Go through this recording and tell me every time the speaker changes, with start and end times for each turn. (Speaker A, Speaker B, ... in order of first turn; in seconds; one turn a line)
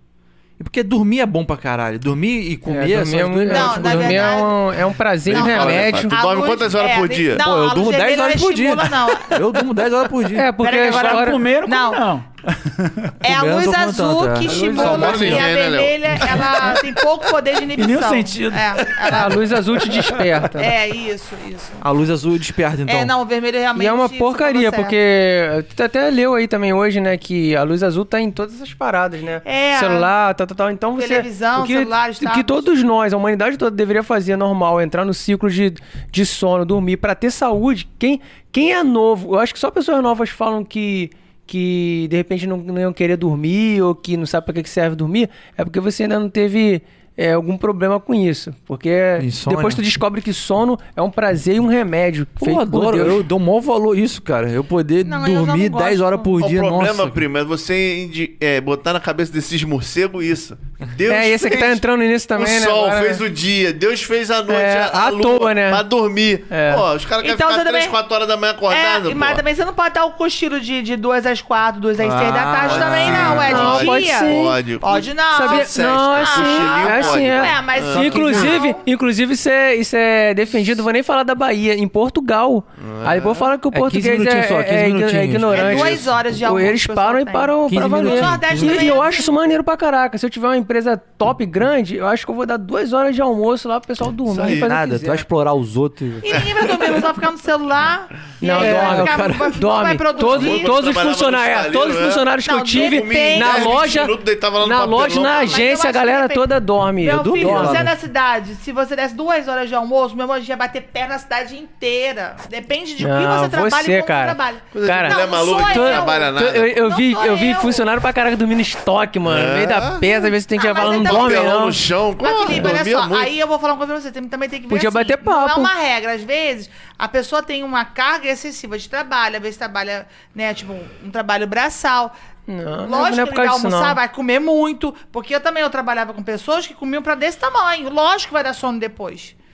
Speaker A: 0.6-4.4
Speaker B: 2.7-6.2
Speaker C: 3.5-4.6
Speaker D: 5.2-7.4
Speaker C: 5.3-9.4
Speaker A: 7.4-10.5
Speaker B: 10.3-11.4
Speaker C: 10.6-12.0
Speaker E: 10.8-13.2
Speaker C: 13.2-19.5
Speaker A: 13.2-15.5
Speaker B: 14.4-15.2
Speaker D: 14.7-16.5
Speaker E: 17.8-19.4
Speaker B: 19.1-20.7
Speaker C: 20.5-21.9
Speaker A: 21.8-23.1
Speaker C: 22.9-25.0
Speaker B: 23.8-53.3
Speaker C: 29.4-30.1
Speaker C: 31.0-32.6
Speaker A: 49.2-49.8
Speaker A: 52.4-57.2
Speaker C: 55.0-56.3
Speaker D: 56.4-69.4
Speaker B: 61.1-63.2
Speaker B: 64.5-65.8
Speaker B: 66.5-66.9
Speaker C: 67.2-68.0
Speaker C: 68.7-78.8
Speaker A: 72.0-73.7
Speaker D: 72.6-78.6
Speaker B: 73.2-74.6
Speaker B: 75.3-95.2
Speaker D: 82.8-83.5
Speaker A: 83.7-86.0
Speaker C: 85.5-89.3
Speaker A: 87.7-89.0
Speaker D: 94.3-94.7
Speaker A: 94.4-96.4
Speaker C: 96.2-100.8
Speaker B: 98.4-107.9
Speaker A: 98.5-99.6
Speaker D: 100.2-105.7
Speaker C: 102.5-103.8
Speaker C: 105.2-117.9
Speaker A: 107.1-107.9
Speaker B: 113.0-121.8
Speaker D: 114.7-116.8
Speaker D: 119.2-123.3
Speaker C: 120.6-132.1
Speaker B: 124.7-125.7
Speaker B: 132.5-134.0
Speaker C: 132.8-139.3